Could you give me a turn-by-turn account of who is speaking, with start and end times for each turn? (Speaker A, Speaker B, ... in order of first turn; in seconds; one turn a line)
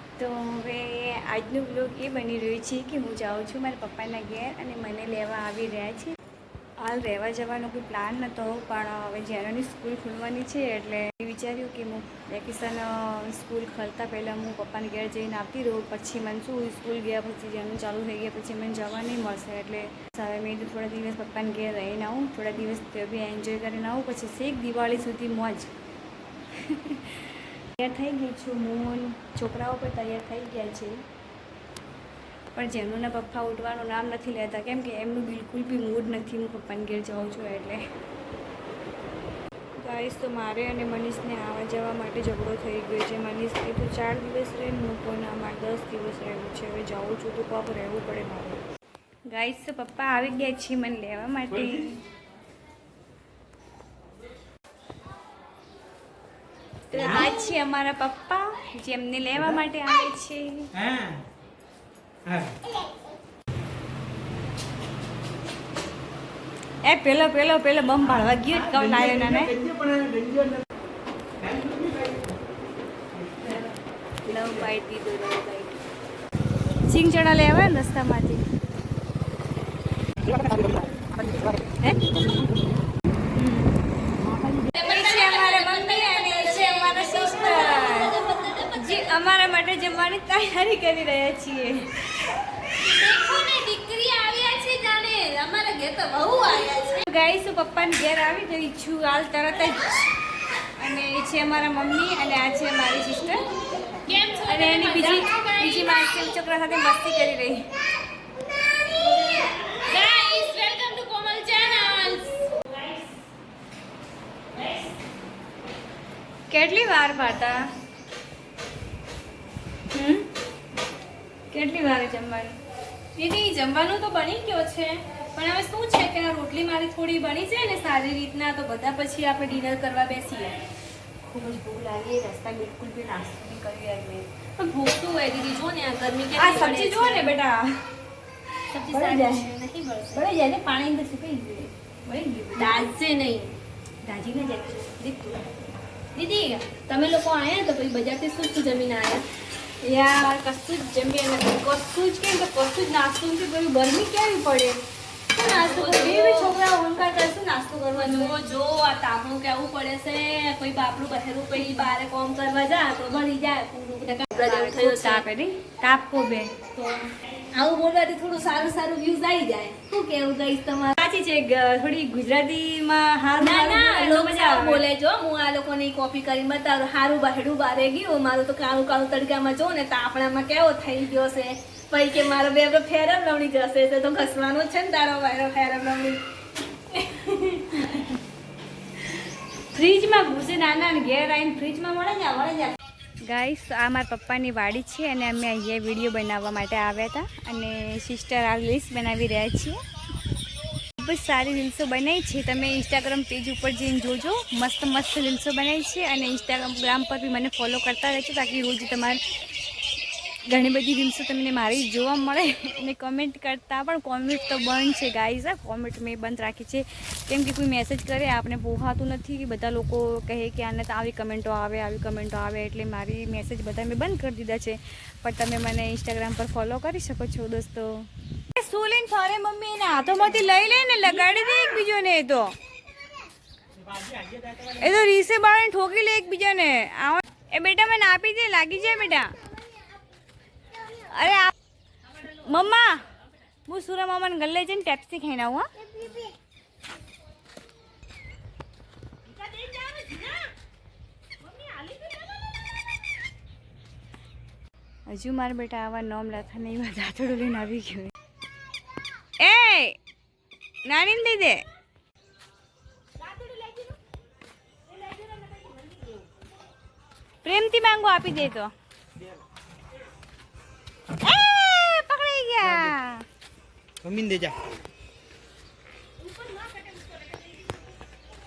Speaker A: 0.2-6.1
Speaker A: 6.8-25.7
Speaker A: 26.6-31.0
Speaker A: 32.5-37.8
Speaker A: 39.8-48.6
Speaker A: 49.3-52.0
Speaker A: 56.9-60.7
Speaker B: 60.8-61.1
Speaker B: 62.2-62.5
Speaker A: 66.9-69.6
Speaker B: 68.6-70.6
Speaker B: 71.4-72.3
Speaker A: 73.4-73.7
Speaker A: 74.2-75.8
Speaker A: 76.9-78.4
Speaker A: 83.3-83.8
Speaker A: 84.7-88.2
Speaker C: 84.7-89.2
Speaker A: 88.7-91.9
Speaker C: 92.8-97.0
Speaker A: 97.0-103.5
Speaker C: 103.9-106.1
Speaker A: 104.4-107.7
Speaker C: 109.6-112.8
Speaker A: 116.5-117.7
Speaker A: 119.9-120.3
Speaker A: 121.5-122.5
Speaker C: 123.2-130.6
Speaker A: 131.2-134.3
Speaker C: 134.6-137.3
Speaker A: 136.3-137.8
Speaker C: 138.7-140.3
Speaker A: 138.8-139.5
Speaker A: 140.1-142.8
Speaker C: 142.6-143.6
Speaker A: 144.0-145.4
Speaker C: 146.1-149.2
Speaker C: 149.8-154.7
Speaker A: 153.2-154.7
Speaker A: 155.3-158.4
Speaker C: 155.4-156.6
Speaker C: 157.9-165.2
Speaker A: 161.5-161.9
Speaker A: 164.3-166.5
Speaker C: 166.7-170.9
Speaker A: 170.9-174.8
Speaker C: 173.4-186.2
Speaker C: 186.9-187.8
Speaker A: 187.7-188.2
Speaker A: 189.7-199.8
Speaker A: 201.0-209.2
Speaker A: 210.5-232.5
Speaker B: 233.9-234.6
Speaker A: 234.6-239.3
Speaker A: 240.9-241.5
Speaker A: 242.3-243.0
Speaker A: 243.7-245.7
Speaker C: 249.3-250.5
Speaker C: 251.5-252.3
Speaker A: 255.1-258.1
Speaker A: 259.4-260.0
Speaker A: 260.9-261.6
Speaker C: 263.2-264.0
Speaker C: 264.9-266.2
Speaker A: 267.4-268.7
Speaker A: 271.2-273.2
Speaker B: 274.0-274.6
Speaker C: 276.4-277.1